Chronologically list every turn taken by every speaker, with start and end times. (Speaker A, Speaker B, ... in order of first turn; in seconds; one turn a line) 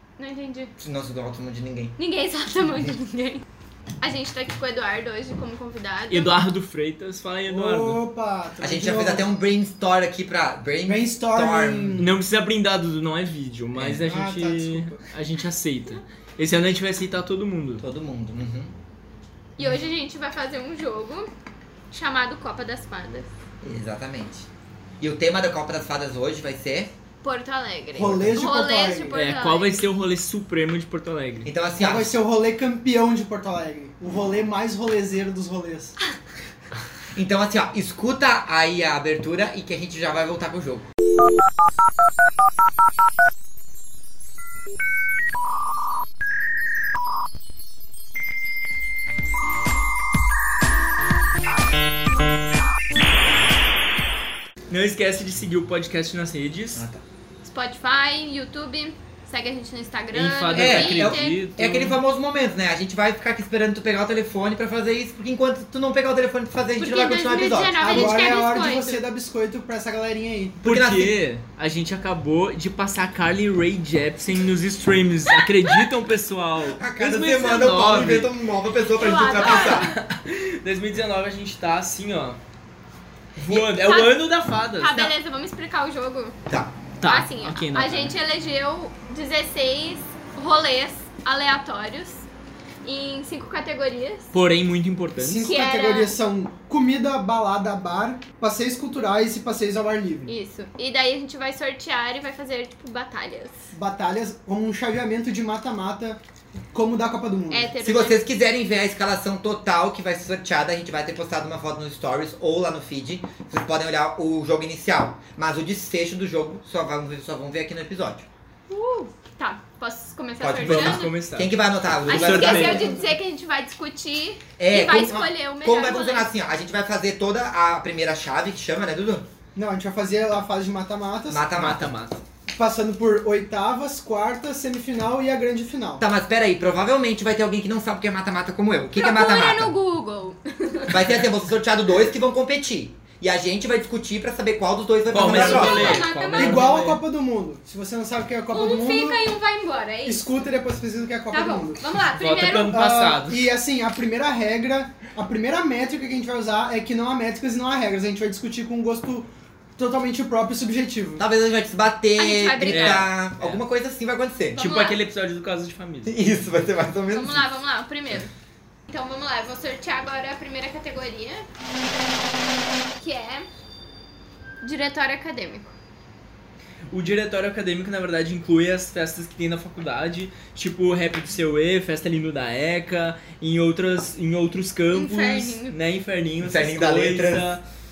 Speaker A: 0.2-0.7
Speaker B: 0.8-1.9
Speaker A: 2.0-3.4
Speaker A: 4.0-6.4
Speaker C: 6.1-8.0
Speaker D: 7.5-9.3
Speaker B: 8.6-12.0
Speaker D: 10.9-12.2
Speaker C: 12.0-17.8
Speaker B: 13.8-14.0
Speaker D: 14.0-15.0
Speaker B: 17.8-18.7
Speaker A: 19.6-21.3
Speaker A: 21.9-23.3
Speaker B: 23.6-24.5
Speaker B: 25.0-26.9
Speaker A: 27.2-30.0
Speaker D: 27.9-29.2
Speaker B: 28.0-28.5
Speaker C: 29.1-31.5
Speaker B: 31.4-32.2
Speaker D: 31.8-36.0
Speaker B: 37.1-40.9
Speaker C: 54.7-56.8
Speaker B: 56.7-57.0
Speaker A: 57.4-61.4
Speaker C: 60.1-62.0
Speaker B: 60.5-68.3
Speaker A: 66.8-69.0
Speaker D: 67.8-70.6
Speaker C: 70.6-78.3
Speaker B: 70.6-71.2
Speaker B: 76.8-79.9
Speaker A: 78.9-80.0
Speaker C: 79.4-82.4
Speaker C: 83.4-85.0
Speaker A: 83.5-86.4
Speaker B: 86.5-86.7
Speaker C: 87.0-88.1
Speaker A: 87.0-92.2
Speaker A: 92.8-94.3
Speaker C: 94.3-95.5
Speaker D: 95.2-100.3
Speaker A: 95.5-96.1
Speaker A: 100.3-103.6
Speaker D: 103.7-106.2
Speaker D: 106.7-107.7
Speaker A: 107.5-108.2
Speaker B: 107.8-118.3
Speaker A: 118.7-121.1
Speaker B: 120.4-122.9
Speaker C: 120.6-121.5
Speaker C: 122.1-122.9
Speaker A: 122.1-126.3
Speaker D: 122.6-123.1
Speaker B: 124.6-129.3
Speaker D: 129.6-131.4
Speaker B: 131.3-131.9
Speaker C: 131.5-132.2
Speaker D: 132.5-136.0
Speaker B: 136.0-139.7
Speaker A: 138.9-141.2
Speaker B: 140.9-146.1
Speaker C: 145.1-147.0
Speaker D: 145.2-149.2
Speaker A: 145.3-146.7
Speaker A: 148.5-150.2
Speaker D: 150.1-151.8
Speaker A: 151.3-152.8
Speaker C: 152.2-153.5
Speaker D: 152.6-161.2
Speaker B: 161.2-164.6
Speaker A: 162.2-163.1
Speaker C: 162.7-163.6
Speaker A: 164.5-165.0
Speaker C: 164.6-166.2
Speaker B: 166.1-167.5
Speaker A: 167.1-168.3
Speaker A: 168.9-171.5
Speaker A: 173.0-173.5
Speaker A: 174.6-175.7
Speaker C: 176.9-187.6
Speaker A: 184.9-185.8
Speaker B: 186.4-187.5